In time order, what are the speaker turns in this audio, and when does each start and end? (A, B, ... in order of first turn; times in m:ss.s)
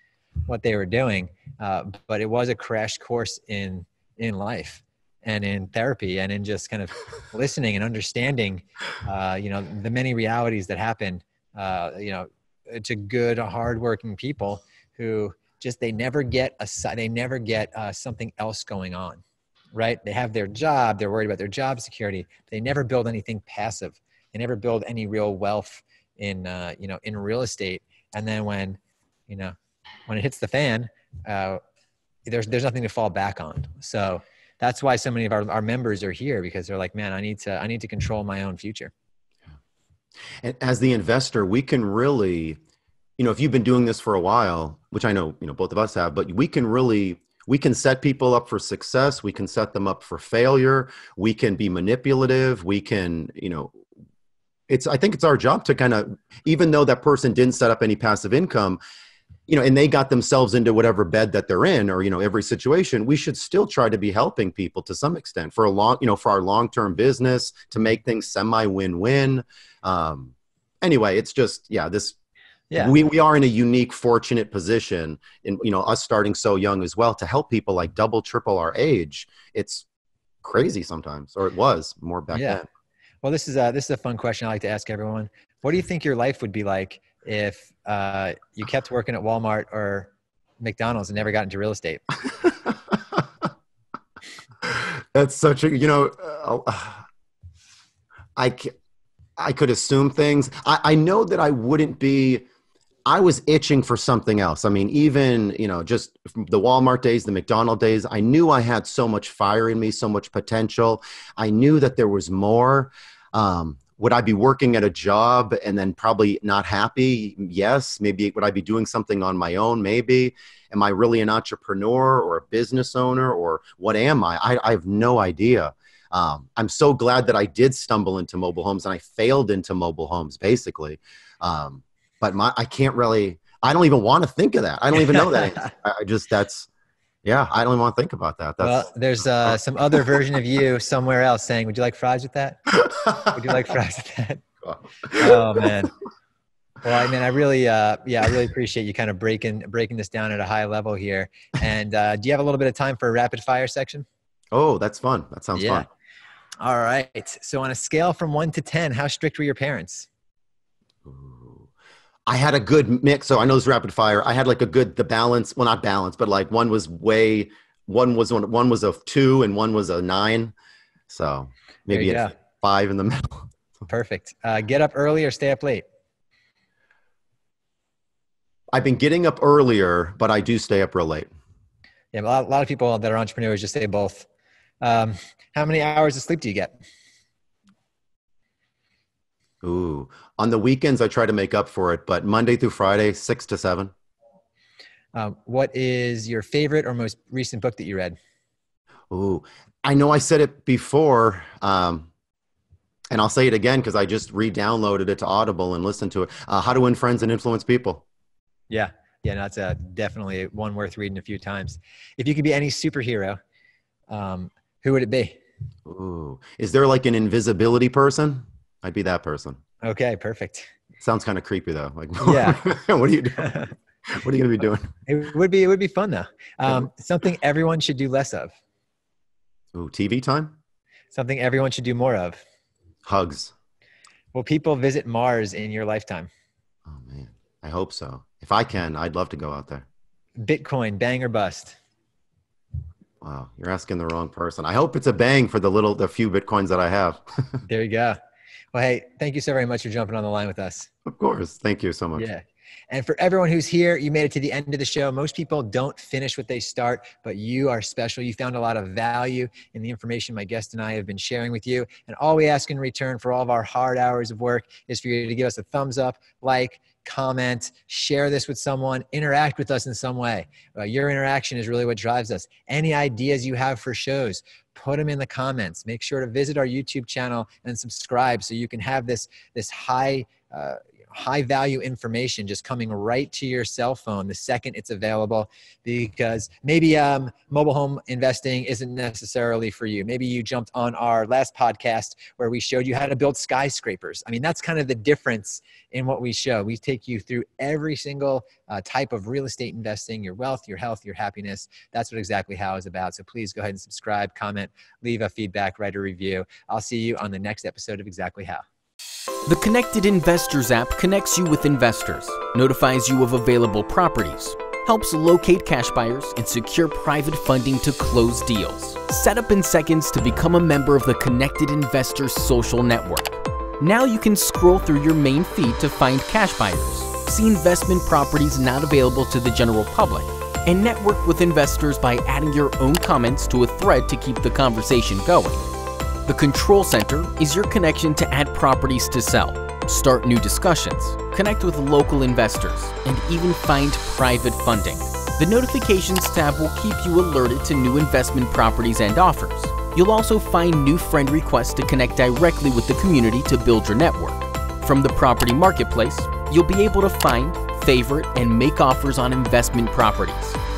0:00.5-0:19.2 A
0:19.7-0:29.6 A
0:30.1-0:31.6 A
0:32.3-0:38.9 A
0:40.4-0:42.6 B
0:43.2-0:53.8 B
0:54.7-0:58.8 B
0:59.5-1:12.2 B
1:12.8-1:19.9 B
1:20.4-1:22.6 B
1:22.3-1:22.6 A
1:23.2-1:32.0 A
1:34.6-1:37.0 B
1:38.4-1:38.7 B
1:39.4-1:42.4 B
1:43.1-2:16.7 B
2:15.1-2:15.7 A
2:17.2-2:18.9 B
2:18.6-2:24.4 A
2:24.6-2:25.7 B
2:25.1-2:25.9 A
2:26.8-2:34.1 A
2:34.5-2:35.9 B
2:35.5-2:35.9 A
2:36.6-2:40.1 A
2:41.0-2:41.7 B
2:42.3-2:50.5 B
2:51.1-2:53.5 B
2:51.9-2:52.3 A
2:53.9-2:55.8 A
2:58.7-3:01.3 B
3:02.1-3:04.3 A
3:04.8-3:06.8 A
3:09.6-3:13.9 B
3:15.1-3:18.2 A
3:19.1-3:22.1 B
3:23.1-3:28.0 B
3:28.7-3:33.4 A
3:34.1-3:35.4 A
3:35.8-3:39.6 B
3:39.8-3:40.7 A
3:41.0-3:44.9 B
3:42.2-3:42.6 A
3:45.1-3:48.5 A
3:49.7-3:50.6 B
3:51.1-3:52.4 A
3:53.0-3:53.5 B
3:54.3-3:56.3 A
3:56.9-3:59.9 B
4:00.4-4:01.8 A
4:03.2-4:07.6 B
4:07.6-4:08.2 A
4:08.7-4:10.9 A
4:11.0-4:12.2 B
4:12.2-5:08.6 A
5:09.5-5:35.7 C
5:36.3-6:00.6 C